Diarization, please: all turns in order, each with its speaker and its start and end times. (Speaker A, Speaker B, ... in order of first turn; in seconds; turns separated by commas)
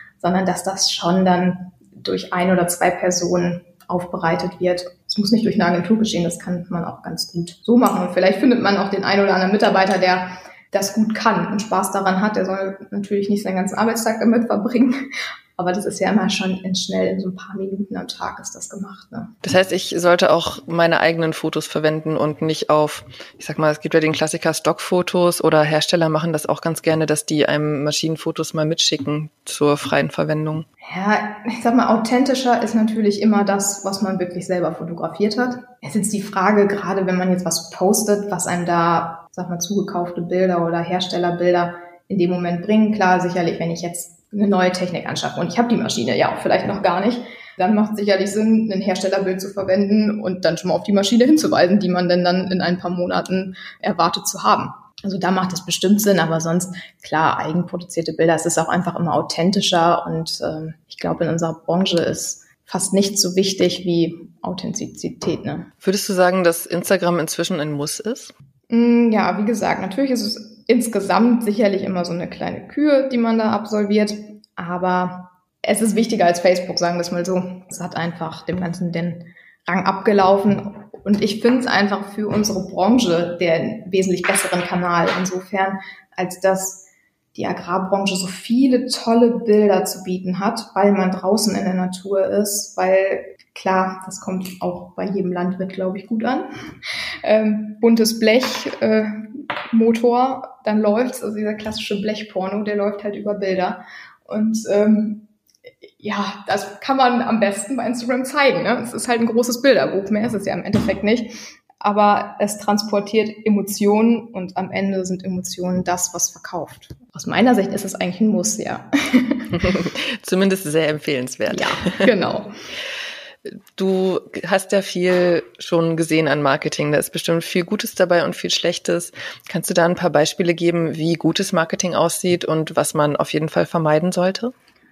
Speaker A: 0.2-19.3, Speaker B: 19.4-30.7, Speaker A: 30.8-65.7, Speaker B: 65.8-68.3, Speaker A: 68.7-96.5, Speaker A: 97.2-105.2, Speaker A: 105.8-119.6, Speaker B: 119.5-122.1, Speaker A: 121.5-122.5, Speaker B: 123.4-134.5